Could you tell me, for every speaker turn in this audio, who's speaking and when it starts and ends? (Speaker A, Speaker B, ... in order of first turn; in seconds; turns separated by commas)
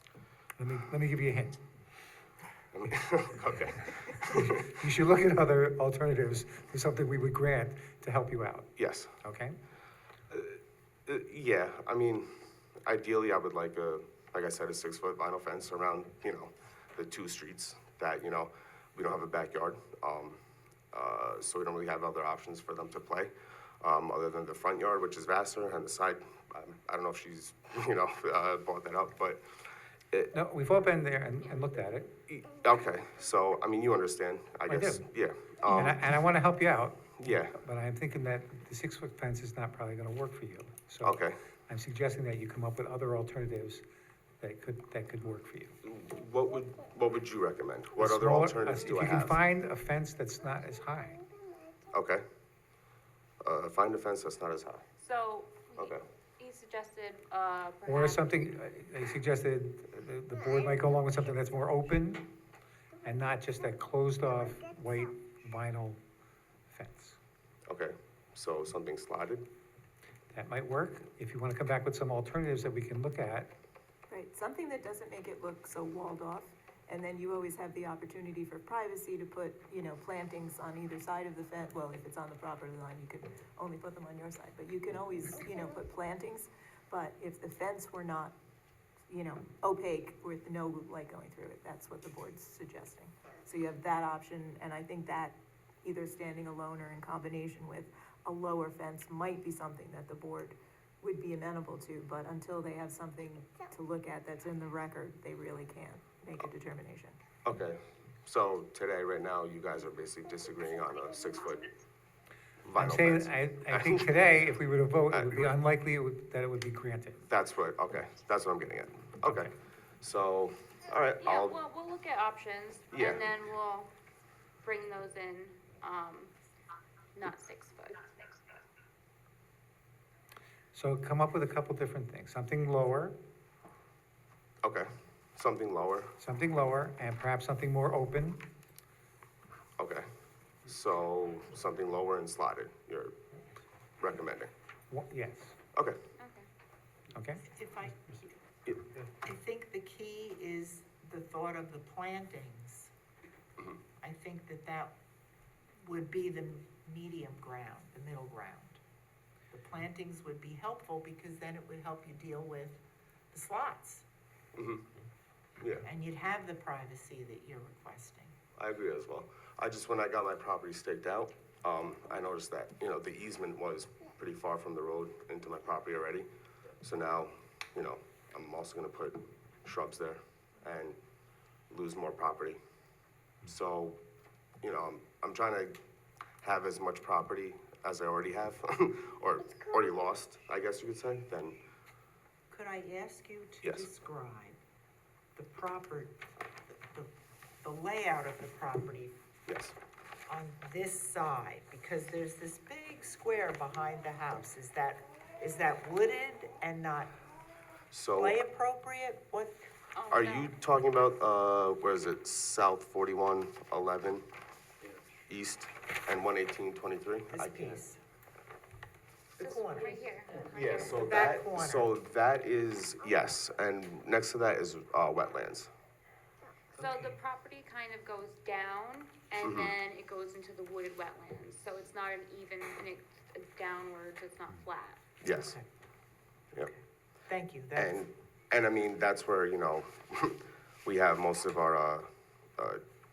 Speaker A: 0.6-1.6, Speaker B: 2.7-4.5, Speaker A: 4.6-8.7, Speaker B: 8.8-9.1, Speaker A: 9.2-9.6, Speaker B: 10.3-12.3, Speaker B: 12.8-20.4, Speaker B: 20.9-29.4, Speaker A: 30.3-32.1, Speaker B: 32.3-36.0, Speaker A: 34.7-35.1, Speaker A: 35.7-41.2, Speaker B: 37.2-37.6, Speaker B: 41.0-41.4, Speaker A: 41.7-43.8, Speaker A: 44.4-45.8, Speaker B: 45.8-49.4, Speaker A: 48.0-51.2, Speaker B: 51.9-52.2, Speaker B: 53.4-54.8, Speaker C: 55.0-58.2, Speaker B: 55.8-56.0, Speaker A: 57.9-62.3, Speaker A: 63.0-66.0, Speaker A: 66.7-67.2, Speaker B: 67.7-69.5, Speaker A: 70.3-73.5, Speaker D: 74.1-88.3, Speaker D: 89.1-107.2, Speaker B: 107.5-111.7, Speaker B: 112.7-114.1, Speaker A: 112.8-117.2, Speaker B: 117.2-121.6, Speaker C: 121.2-123.9, Speaker B: 122.9-123.3, Speaker C: 124.6-126.3, Speaker C: 127.2-128.3, Speaker A: 130.7-133.2, Speaker B: 134.6-136.1, Speaker A: 136.2-138.4, Speaker B: 139.8-140.1, Speaker B: 140.7-143.2, Speaker B: 144.0-144.5, Speaker A: 144.9-145.6, Speaker C: 146.2-146.5, Speaker A: 147.1-147.4, Speaker E: 147.4-148.1, Speaker E: 149.2-152.9, Speaker E: 154.0-154.9, Speaker E: 155.8-158.8, Speaker E: 159.5-162.8, Speaker E: 163.3-164.1, Speaker B: 164.6-164.9, Speaker B: 165.6-165.9, Speaker E: 165.8-168.3, Speaker B: 168.6-176.3, Speaker B: 176.8-181.0, Speaker B: 181.7-182.6, Speaker B: 183.4-184.0, Speaker B: 184.6-185.8, Speaker B: 186.4-191.6, Speaker E: 192.5-194.6, Speaker E: 195.3-196.2, Speaker E: 197.6-199.2, Speaker B: 199.5-199.8, Speaker E: 200.3-207.2, Speaker B: 207.9-208.4, Speaker E: 208.2-209.7, Speaker C: 210.0-210.5, Speaker B: 210.1-214.3, Speaker B: 215.3-217.8, Speaker E: 217.3-218.0, Speaker E: 219.4-221.9, Speaker C: 219.4-220.9, Speaker B: 220.5-225.7, Speaker E: 226.8-227.2, Speaker C: 226.9-235.0, Speaker B: 229.4-229.7, Speaker B: 235.2-235.6, Speaker E: 235.3-235.7, Speaker E: 237.3-238.0, Speaker B: 237.8-242.1